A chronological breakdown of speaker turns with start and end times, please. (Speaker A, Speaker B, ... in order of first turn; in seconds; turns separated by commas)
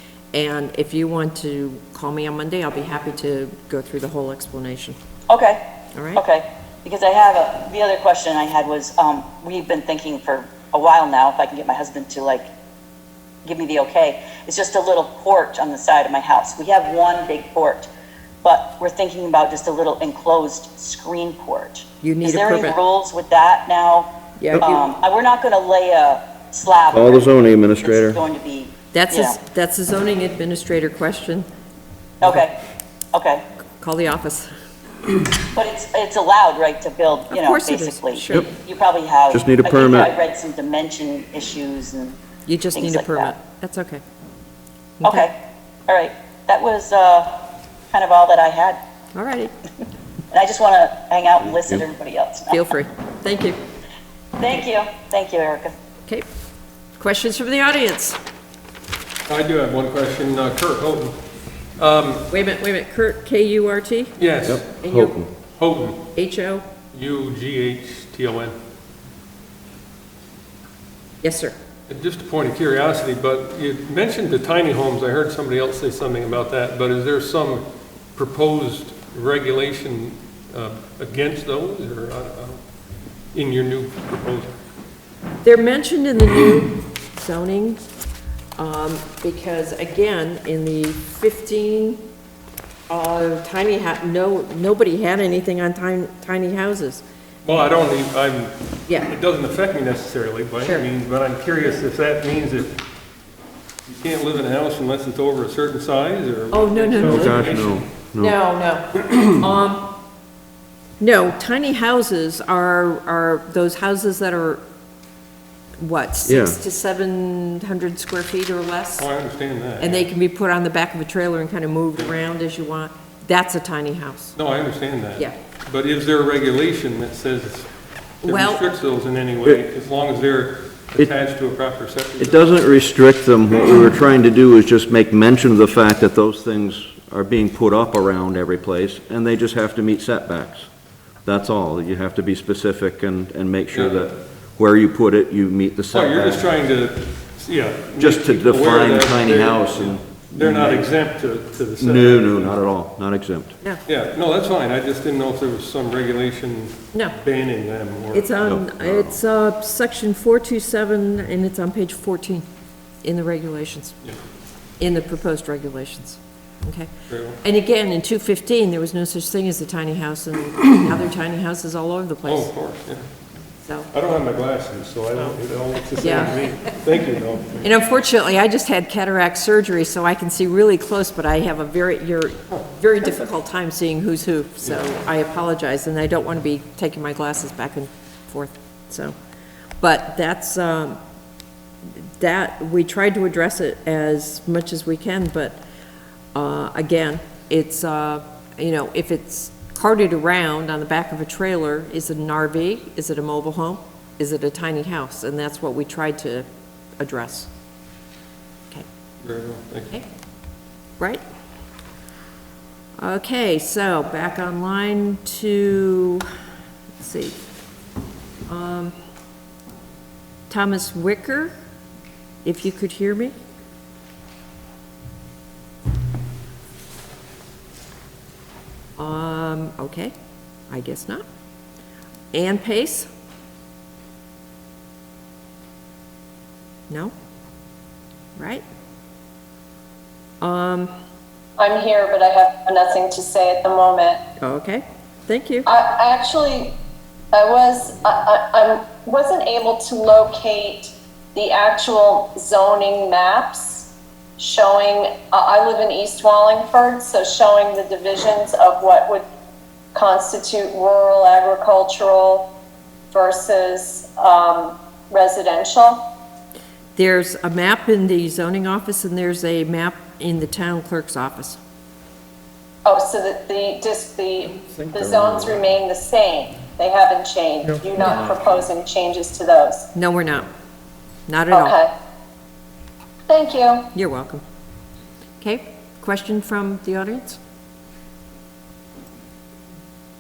Speaker A: 0.3-5.0, Speaker B: 5.3-5.6, Speaker A: 5.9-6.2, Speaker B: 6.1-12.5, Speaker B: 13.4-17.9, Speaker B: 18.4-29.4, Speaker A: 22.0-22.8, Speaker A: 24.4-24.8, Speaker C: 26.9-28.2, Speaker A: 28.9-31.5, Speaker B: 32.2-32.5, Speaker B: 33.1-33.4, Speaker A: 33.8-34.5, Speaker B: 35.5-42.2, Speaker A: 37.3-38.5, Speaker C: 39.3-40.1, Speaker A: 42.5-44.0, Speaker B: 42.7-43.3, Speaker A: 45.0-45.3, Speaker B: 45.0-45.3, Speaker B: 45.9-47.4, Speaker B: 47.9-48.8, Speaker A: 49.1-49.5, Speaker B: 50.3-52.6, Speaker A: 52.5-53.6, Speaker B: 54.4-55.7, Speaker A: 57.0-58.2, Speaker D: 59.3-61.2, Speaker D: 61.8-62.2, Speaker A: 62.3-64.1, Speaker D: 64.2-64.7, Speaker C: 64.4-65.3, Speaker A: 64.8-65.1, Speaker D: 65.5-66.0, Speaker A: 66.1-66.6, Speaker D: 66.9-68.5, Speaker A: 71.2-71.5, Speaker D: 71.9-77.6, Speaker D: 78.1-82.6, Speaker D: 83.3-84.5, Speaker A: 85.4-87.8, Speaker A: 88.6-92.0, Speaker A: 92.9-97.0, Speaker D: 97.4-102.7, Speaker D: 103.9-107.9, Speaker A: 106.5-107.5, Speaker C: 107.0-108.4, Speaker A: 108.2-109.9, Speaker A: 111.0-114.6, Speaker A: 115.8-119.1, Speaker C: 116.3-116.6, Speaker D: 119.0-120.1, Speaker A: 119.8-124.3, Speaker D: 124.3-127.7, Speaker D: 128.2-132.6, Speaker A: 128.2-128.7, Speaker C: 132.2-140.7, Speaker C: 141.2-146.5, Speaker D: 143.7-144.0, Speaker D: 145.9-152.6, Speaker C: 148.0-150.9, Speaker C: 151.8-153.5, Speaker D: 153.8-158.3, Speaker A: 158.1-162.4, Speaker C: 158.4-159.2, Speaker A: 163.0-163.9, Speaker A: 164.8-166.9, Speaker D: 167.1-167.4, Speaker A: 167.4-172.5, Speaker D: 172.2-173.1, Speaker A: 173.6-173.9, Speaker D: 173.9-177.7, Speaker A: 176.0-176.4, Speaker A: 177.6-189.2, Speaker A: 189.8-191.0, Speaker A: 192.0-195.6, Speaker A: 196.3-206.5, Speaker A: 207.0-207.5, Speaker D: 209.2-209.9, Speaker A: 213.0-216.3, Speaker A: 217.0-217.4, Speaker A: 218.5-218.9, Speaker A: 220.5-221.5, Speaker A: 222.4-223.3, Speaker A: 229.0-230.1, Speaker A: 230.7-231.2, Speaker A: 232.3-233.1, Speaker A: 236.9-237.1, Speaker A: 238.3-238.6, Speaker A: 240.4-240.9, Speaker E: 241.6-244.2, Speaker A: 244.4-245.7, Speaker E: 245.6-246.8, Speaker E: 247.3-259.2, Speaker E: 259.9-262.5, Speaker E: 263.1-266.1, Speaker A: 266.9-271.6, Speaker E: 272.8-279.9, Speaker C: 274.8-275.5, Speaker A: 279.9-280.5, Speaker A: 281.3-281.8, Speaker E: 281.5-281.9, Speaker E: 283.3-283.9, Speaker A: 283.9-284.4, Speaker A: 285.4-287.4